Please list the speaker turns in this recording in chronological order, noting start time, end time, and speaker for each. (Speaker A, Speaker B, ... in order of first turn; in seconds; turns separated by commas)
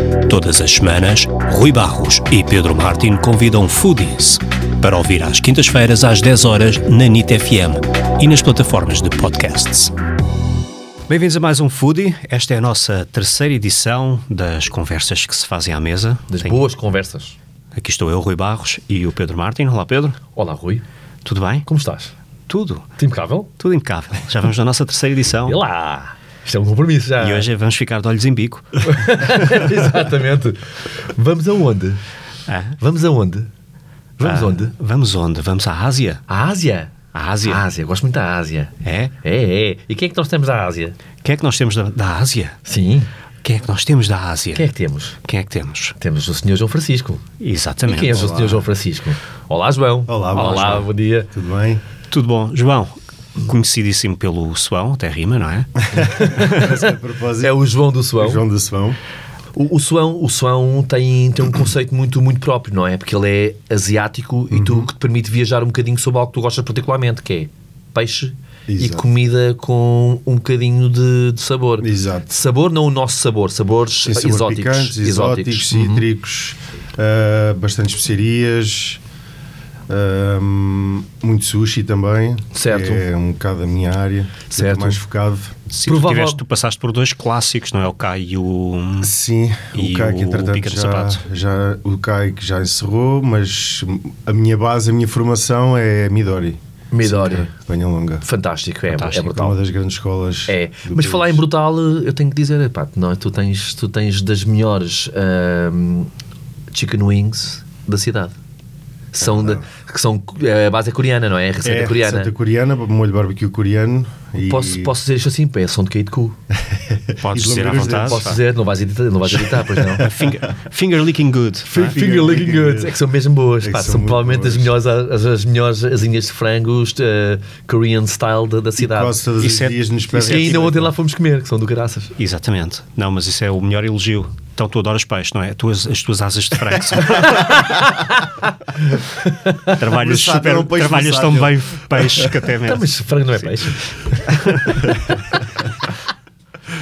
Speaker A: 0.3-9.9, Speaker A: 11.1-16.6, Speaker B: 16.3-17.4, Speaker A: 17.8-20.2, Speaker B: 20.4-20.8, Speaker A: 21.2-21.7, Speaker B: 21.7-22.1, Speaker A: 22.5-22.8, Speaker B: 23.0-23.5, Speaker A: 23.6-25.6, Speaker B: 25.5-27.5, Speaker A: 27.2-28.8, Speaker B: 28.8-32.0, Speaker A: 32.5-32.8, Speaker B: 32.8-33.5, Speaker B: 34.2-34.7, Speaker A: 34.2-36.2, Speaker B: 36.3-41.0, Speaker A: 37.1-37.6, Speaker A: 38.8-39.1, Speaker A: 41.2-42.6, Speaker B: 42.6-43.1, Speaker A: 43.4-44.7, Speaker B: 44.5-45.2, Speaker A: 45.2-46.0, Speaker B: 46.0-47.2, Speaker A: 47.4-48.3, Speaker B: 47.8-51.3, Speaker C: 48.1-48.7, Speaker C: 50.1-51.8, Speaker A: 50.4-50.8, Speaker A: 52.1-55.8, Speaker C: 55.9-57.6, Speaker B: 55.9-58.4, Speaker C: 58.2-59.0, Speaker B: 59.5-76.1, Speaker C: 64.5-64.9, Speaker C: 68.7-69.1, Speaker C: 71.8-72.3, Speaker C: 74.0-79.0, Speaker C: 79.9-85.5, Speaker B: 82.5-83.0, Speaker B: 84.5-85.0, Speaker A: 85.7-89.2, Speaker B: 85.8-86.4, Speaker C: 89.0-98.2, Speaker A: 89.7-91.2, Speaker B: 96.9-97.5, Speaker B: 98.2-99.6, Speaker A: 98.9-99.3, Speaker C: 99.2-101.4, Speaker B: 100.5-106.1, Speaker B: 106.7-108.3, Speaker B: 109.1-112.3, Speaker C: 109.2-109.6, Speaker C: 111.6-114.9, Speaker B: 114.4-116.4, Speaker C: 116.7-118.3, Speaker A: 117.2-118.4, Speaker B: 117.8-120.1, Speaker A: 119.4-121.9, Speaker C: 119.8-120.3, Speaker B: 121.7-129.2, Speaker C: 121.7-123.0, Speaker C: 123.6-124.7, Speaker C: 128.8-130.9, Speaker A: 129.4-130.8, Speaker B: 130.1-132.2, Speaker A: 132.2-137.7, Speaker B: 137.1-139.8, Speaker A: 139.8-142.9, Speaker C: 139.9-142.4, Speaker B: 142.6-145.2, Speaker A: 144.4-144.8